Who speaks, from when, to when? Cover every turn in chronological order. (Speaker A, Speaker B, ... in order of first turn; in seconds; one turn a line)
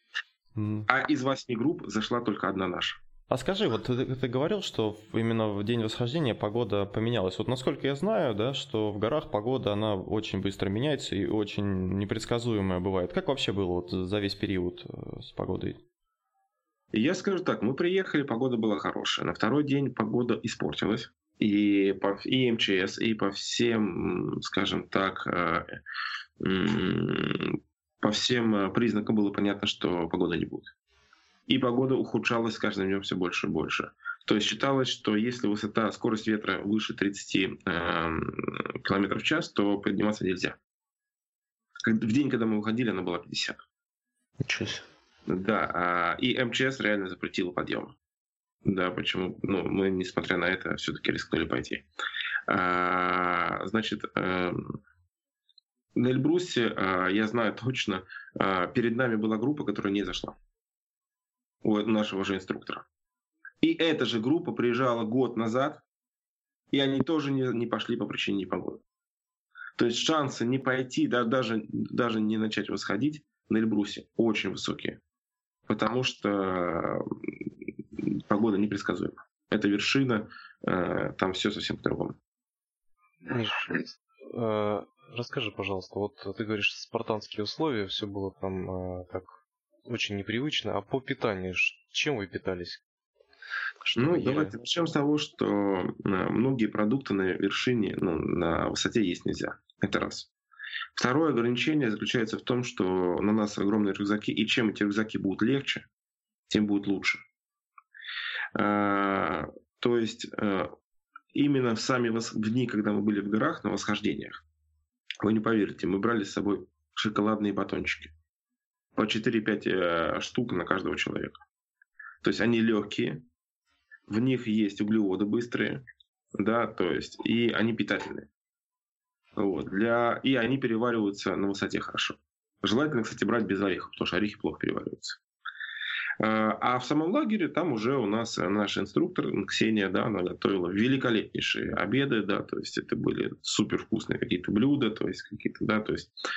Speaker A: 0.6-0.9
Speaker B: 0.9-3.0
Speaker A: 3.3-15.8
Speaker B: 16.9-25.8
Speaker B: 26.4-30.7
Speaker B: 31.5-40.6
Speaker B: 41.8-43.6
Speaker C: 44.4-44.8
Speaker B: 45.3-47.9
Speaker B: 48.6-51.9
Speaker B: 52.5-54.8
Speaker B: 55.9-60.4
Speaker B: 61.6-62.8
Speaker B: 63.6-65.8
Speaker B: 66.7-68.8
Speaker B: 69.8-75.0
Speaker B: 75.7-77.0
Speaker B: 78.0-82.2
Speaker C: 83.3-92.8
Speaker C: 93.9-94.5
Speaker B: 93.9-100.3
Speaker B: 100.9-105.8
Speaker B: 106.5-107.2
Speaker B: 108.5-110.7
Speaker B: 111.3-114.4
Speaker B: 115.2-118.1
Speaker B: 118.9-121.4
Speaker B: 122.2-123.2
Speaker B: 124.1-125.8
Speaker B: 126.3-128.3
Speaker B: 129.4-135.2
Speaker B: 136.2-146.1